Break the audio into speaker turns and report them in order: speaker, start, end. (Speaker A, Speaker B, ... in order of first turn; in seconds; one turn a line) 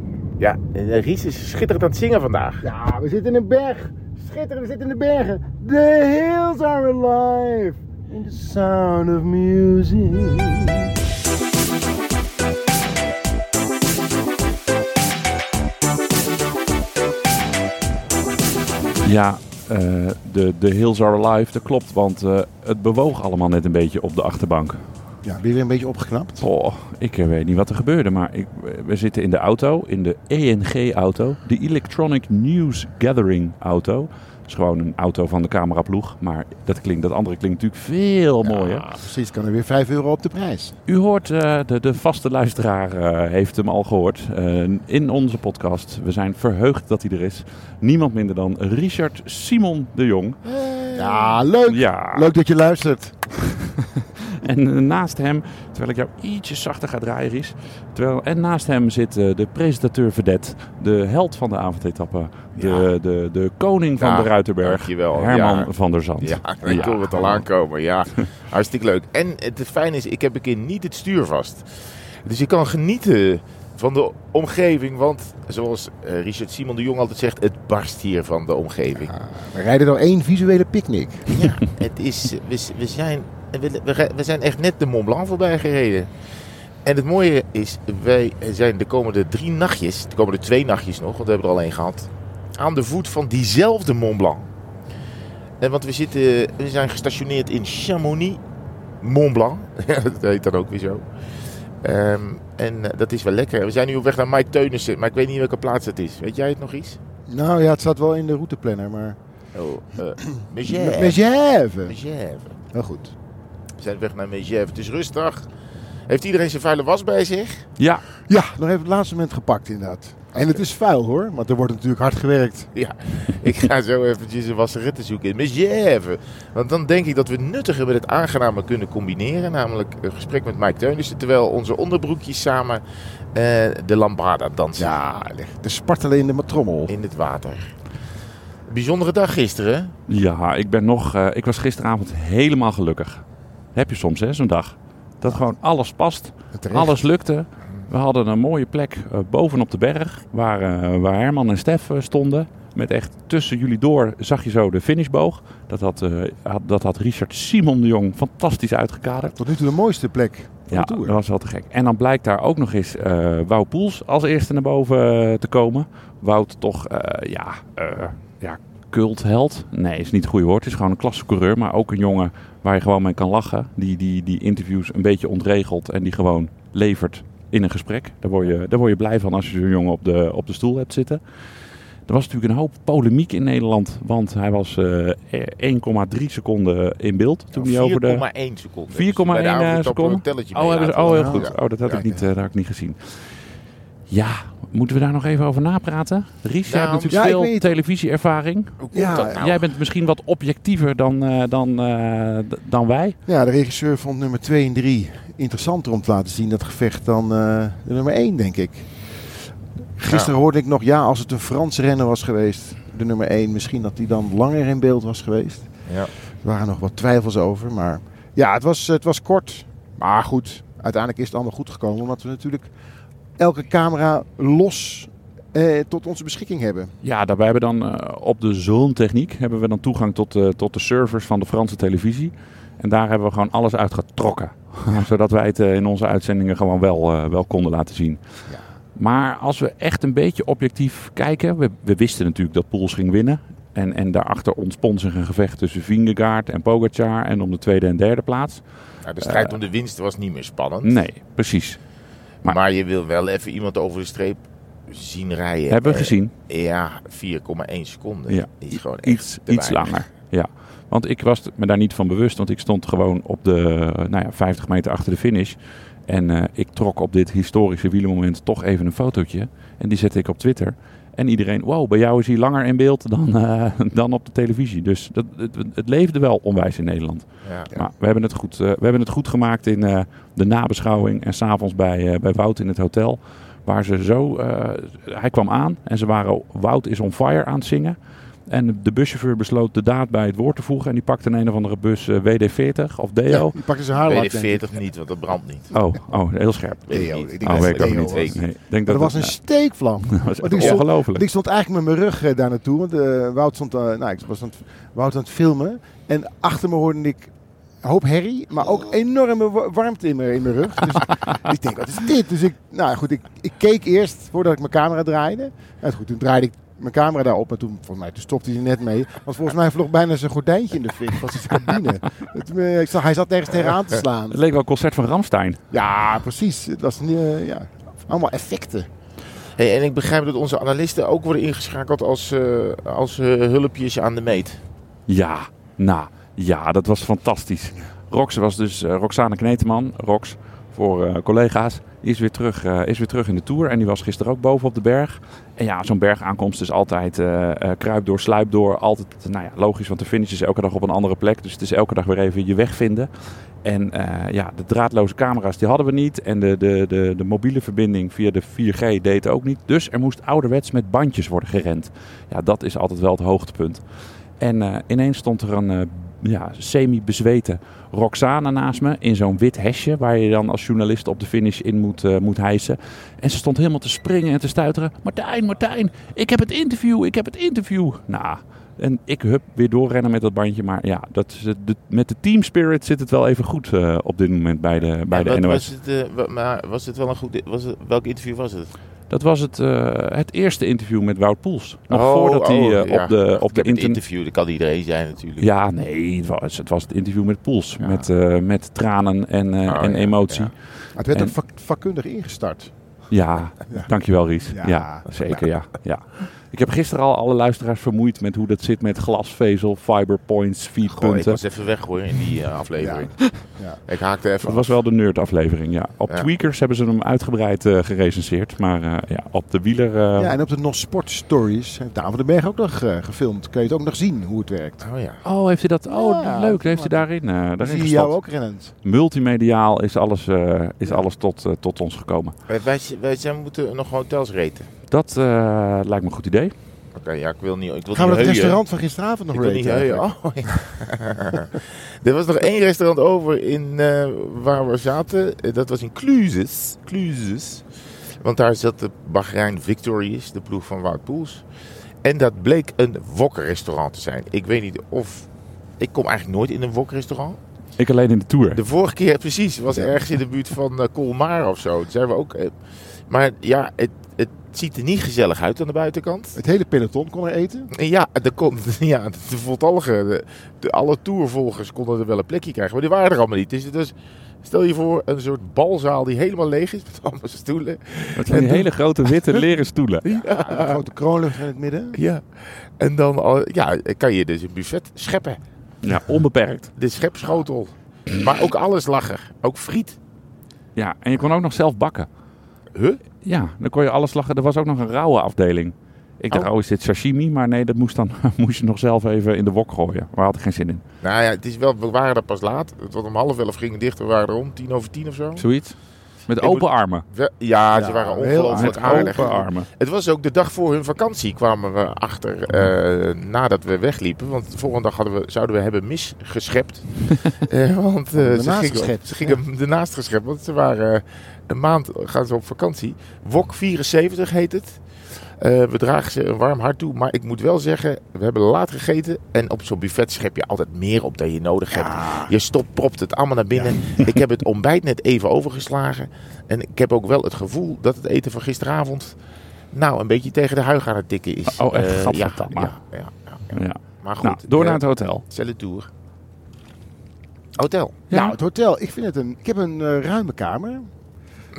Speaker A: 0.4-2.6
Speaker B: 2.6-10.9
Speaker C: 19.0-24.8
Speaker B: 25.2-26.5
Speaker C: 26.4-38.9
Speaker B: 38.8-40.7
Speaker C: 40.9-50.4
Speaker A: 50.4-51.5
Speaker B: 51.0-53.2
Speaker C: 51.7-52.3
Speaker C: 54.2-67.5
Speaker A: 62.6-62.9
Speaker A: 64.0-79.1
Speaker B: 79.0-81.3
Speaker A: 81.3-86.1
Speaker A: 86.8-94.5
Speaker A: 95.6-98.4
Speaker A: 99.0-101.0
Speaker A: 101.8-107.0
Speaker B: 107.3-109.2
Speaker A: 109.5-111.2
Speaker B: 110.7-112.0
Speaker A: 111.8-112.6
Speaker B: 112.7-113.1
Speaker A: 113.8-115.5
Speaker A: 116.1-117.7
Speaker C: 117.8-118.0
Speaker B: 118.3-122.7
Speaker A: 122.7-132.8
Speaker A: 133.3-134.9
Speaker B: 134.8-136.9
Speaker A: 136.9-137.8
Speaker A: 138.7-139.9
Speaker C: 140.1-143.2
Speaker C: 143.8-159.4
Speaker B: 146.5-147.1
Speaker B: 159.4-161.2
Speaker C: 160.7-181.2
Speaker C: 182.1-188.2
Speaker A: 187.5-192.0
Speaker C: 188.9-193.0
Speaker B: 191.1-192.3
Speaker C: 194.1-203.2
Speaker A: 196.7-197.3
Speaker B: 197.1-197.7
Speaker A: 198.8-199.7
Speaker B: 198.9-199.4
Speaker B: 203.3-208.9
Speaker B: 210.0-215.7
Speaker A: 210.1-210.3
Speaker B: 216.4-222.7
Speaker B: 223.4-226.9
Speaker C: 227.0-238.2
Speaker C: 239.0-248.7
Speaker A: 249.0-251.0
Speaker C: 249.2-249.6
Speaker C: 250.8-251.8
Speaker A: 252.4-260.1
Speaker C: 255.7-256.3
Speaker C: 258.3-288.0
Speaker A: 277.4-277.7
Speaker C: 288.5-293.6
Speaker B: 293.3-294.6
Speaker A: 294.0-295.7
Speaker C: 295.7-301.2
Speaker A: 296.9-298.4
Speaker B: 296.9-307.3
Speaker A: 300.6-300.8
Speaker B: 307.8-324.4
Speaker C: 324.3-325.6
Speaker B: 325.7-328.9
Speaker A: 329.6-334.6
Speaker C: 335.1-353.1
Speaker C: 353.6-363.8
Speaker C: 364.4-385.7
Speaker A: 385.1-388.7
Speaker C: 389.1-394.0
Speaker A: 391.9-395.5
Speaker C: 395.4-400.5
Speaker A: 397.8-398.1
Speaker A: 399.7-400.5
Speaker B: 401.0-402.7
Speaker C: 403.1-411.4
Speaker B: 404.5-405.1
Speaker A: 410.9-414.8
Speaker B: 412.8-413.8
Speaker C: 414.4-420.3
Speaker B: 420.2-424.8
Speaker A: 424.8-425.2
Speaker C: 425.2-428.1
Speaker B: 425.9-427.1
Speaker B: 427.6-428.7
Speaker C: 428.8-432.4
Speaker A: 432.5-434.7
Speaker C: 434.9-436.5
Speaker A: 436.9-438.6
Speaker B: 437.9-440.1
Speaker A: 439.3-447.6
Speaker A: 448.2-451.4
Speaker A: 452.0-455.3
Speaker A: 455.8-457.4
Speaker C: 457.8-458.6
Speaker A: 458.5-462.6
Speaker A: 463.1-466.4
Speaker B: 466.4-467.7
Speaker A: 467.7-479.5
Speaker C: 478.2-480.2
Speaker A: 480.1-480.8
Speaker B: 480.3-482.0
Speaker A: 481.9-485.4
Speaker C: 485.8-486.7
Speaker A: 486.8-490.0
Speaker C: 490.8-492.1
Speaker A: 492.8-493.0
Speaker C: 493.2-500.8
Speaker A: 501.0-505.4
Speaker C: 505.4-507.1
Speaker A: 506.4-539.1
Speaker B: 507.7-509.3
Speaker C: 508.4-509.7
Speaker B: 518.2-519.4
Speaker B: 531.7-532.3
Speaker A: 539.7-545.9
Speaker C: 541.5-542.8
Speaker C: 543.5-545.2
Speaker A: 547.6-548.0
Speaker C: 548.1-548.4
Speaker B: 548.1-550.9